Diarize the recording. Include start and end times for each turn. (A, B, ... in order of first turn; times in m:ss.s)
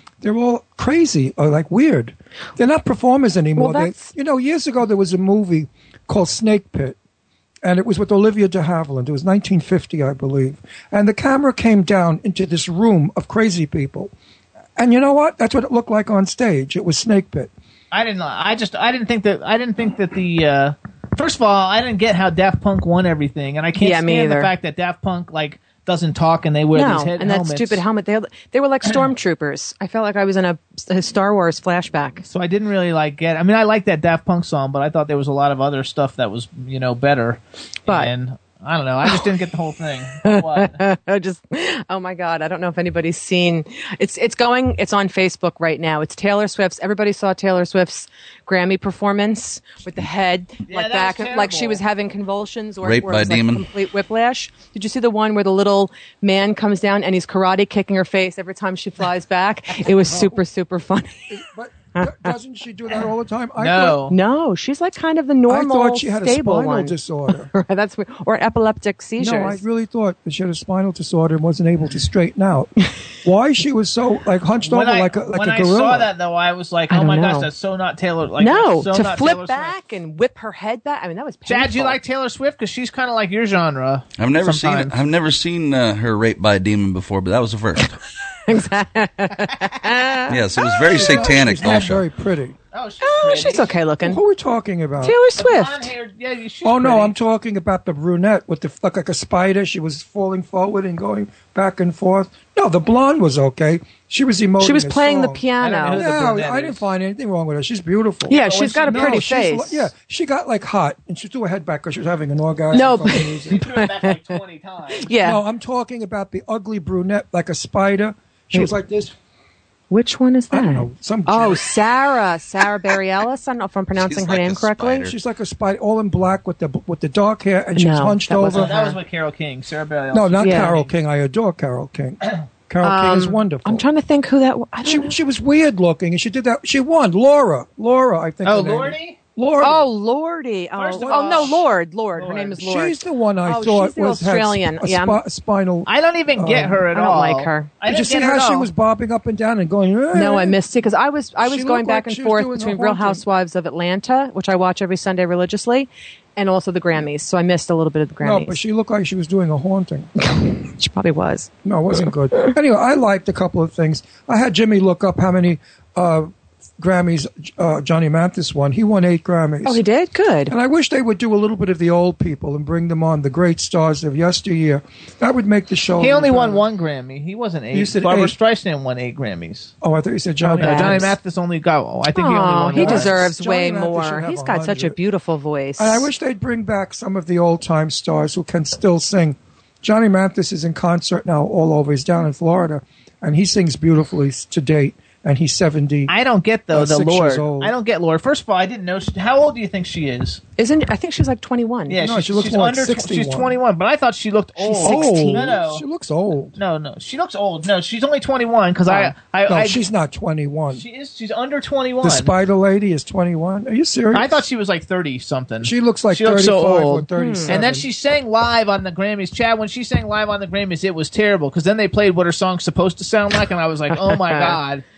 0:00.2-0:07.0 A
0:03.5-0:04.1 B
0:07.6-0:14.1 A
0:14.8-0:17.5 A
0:17.9-0:27.8 C
0:23.8-0:24.5 B
0:26.7-0:32.2 B
0:32.2-0:40.8 C
0:40.2-1:01.3 B
0:50.6-0:51.8 C
0:52.8-0:53.6 D
1:00.0-1:00.4 A
1:01.3-1:04.0 A
1:01.9-1:02.3 B
1:03.6-1:04.2 C
1:04.1-1:09.6 B
1:05.5-1:07.5 A
1:09.2-1:16.1 A
1:14.6-1:19.8 C
1:16.9-1:17.5 B
1:18.4-1:22.0 B
1:21.4-1:25.0 C
1:24.2-1:28.0 D
1:28.5-1:31.2 B
1:30.3-1:32.0 D
1:30.8-1:32.6 A
1:32.7-1:33.7 C
1:33.0-1:34.2 B
1:34.0-1:35.2 A
1:35.0-1:35.9 B
1:35.4-1:37.1 C
1:36.6-1:53.6 A
1:44.6-1:46.1 B
1:45.6-1:46.8 C
1:48.3-1:49.9 B
1:48.3-1:49.2 C
1:52.7-1:54.2 B
1:53.5-1:55.1 C
1:55.0-1:55.4 B
1:55.2-1:59.1 A
1:59.9-2:05.1 B
2:00.5-2:01.6 A
2:03.9-2:05.1 D
2:05.0-2:08.7 A
2:07.8-2:09.0 B
2:08.5-2:10.9 C
2:10.1-2:13.8 A
2:10.4-2:10.8 B
2:12.8-2:15.1 B
2:14.8-2:19.9 A
2:18.4-2:19.2 C
2:19.6-2:25.2 B
2:20.8-2:21.6 C
2:20.9-2:21.6 A
2:22.1-2:22.6 C
2:22.6-2:26.8 A
2:25.8-2:28.7 C
2:26.9-2:27.8 B
2:27.8-2:30.6 A
2:30.1-2:38.6 B
2:31.4-2:33.2 A
2:38.2-2:40.1 A
2:40.2-2:41.5 B
2:41.6-2:49.8 A
2:49.6-2:50.5 B
2:50.5-2:56.6 A
2:56.0-2:59.7 C
2:57.7-2:58.4 A
2:59.8-3:01.1 A
3:00.5-3:03.3 C
3:00.5-3:01.1 B
3:02.1-3:06.1 B
3:02.7-3:05.0 A
3:05.8-3:16.1 A
3:16.1-3:20.4 C
3:16.7-3:17.7 A
3:20.6-3:22.0 B
3:21.9-3:25.8 C
3:22.0-3:23.5 A
3:24.6-3:25.5 B
3:24.8-3:26.6 A
3:26.6-3:29.8 C
3:28.9-3:29.1 B
3:29.4-3:30.8 A
3:30.7-3:32.3 C
3:32.0-3:34.4 A
3:34.1-3:44.8 C
3:35.6-3:37.9 A
3:37.1-3:37.6 B
3:43.9-3:44.6 B